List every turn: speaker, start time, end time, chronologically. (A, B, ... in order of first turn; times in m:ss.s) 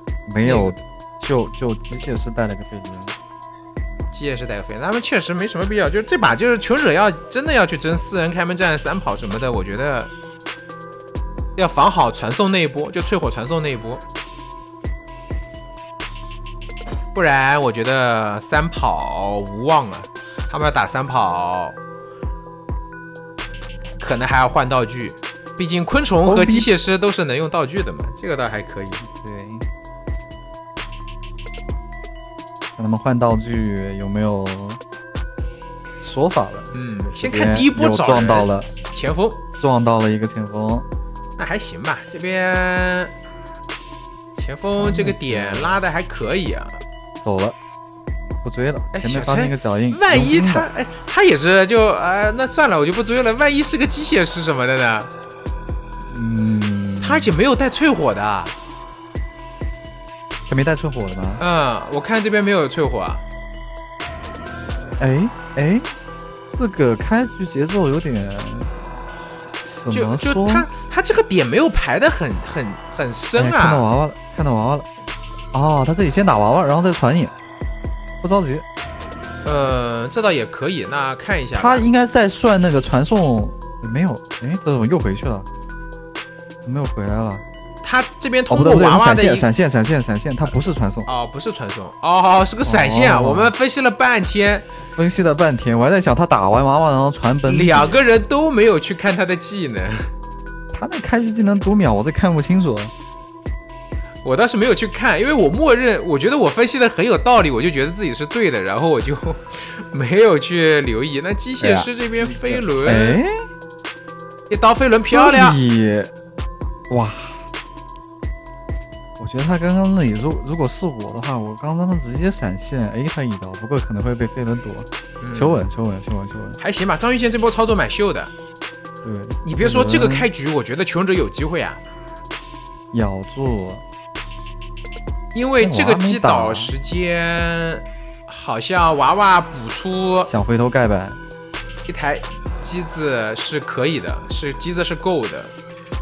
0:00.3-0:03.2 A
0:00.4-0:00.8 B
0:04.1-0:10.1 B
0:11.6-0:14.0 B
0:17.1-0:21.8 B
0:24.0-0:29.0 B
0:26.2-0:26.7 A
0:29.2-0:29.7 A
0:32.8-0:34.8 A
0:36.0-0:38.7 A
0:36.7-0:39.4 B
0:39.5-0:40.9 A
0:41.4-0:43.1 B
0:44.4-0:46.8 B
0:44.7-0:45.8 A
0:47.2-0:47.6 A
0:48.4-0:50.7 A
0:48.9-0:55.1 B
0:56.1-0:57.3 A
0:57.0-0:58.6 B
1:00.5-1:01.4 A
1:01.4-1:03.2 B
1:05.0-1:05.9 A
1:06.5-1:08.7 A
1:09.8-1:10.7 A
1:09.9-1:13.9 B
1:13.4-1:14.9 A
1:15.5-1:17.3 A
1:18.2-1:18.6 A
1:19.4-1:21.9 B
1:21.5-1:25.5 A
1:26.6-1:27.4 A
1:27.8-1:29.5 B
1:28.5-1:31.1 A
1:31.1-1:34.7 B
1:32.6-1:33.5 A
1:35.0-1:38.0 A
1:37.4-1:40.1 B
1:40.7-1:42.9 A
1:44.2-1:53.2 B
1:51.6-1:53.3 A
1:54.5-1:55.6 B
1:55.0-1:56.1 A
1:56.9-1:57.4 A
1:59.2-2:06.6 A
2:05.2-2:05.6 B
2:06.6-2:08.3 B
2:09.0-2:10.3 A
2:09.4-2:11.8 B
2:12.9-2:13.8 A
2:15.3-2:20.3 B
2:15.6-2:16.7 A
2:20.2-2:21.2 A
2:21.9-2:25.5 B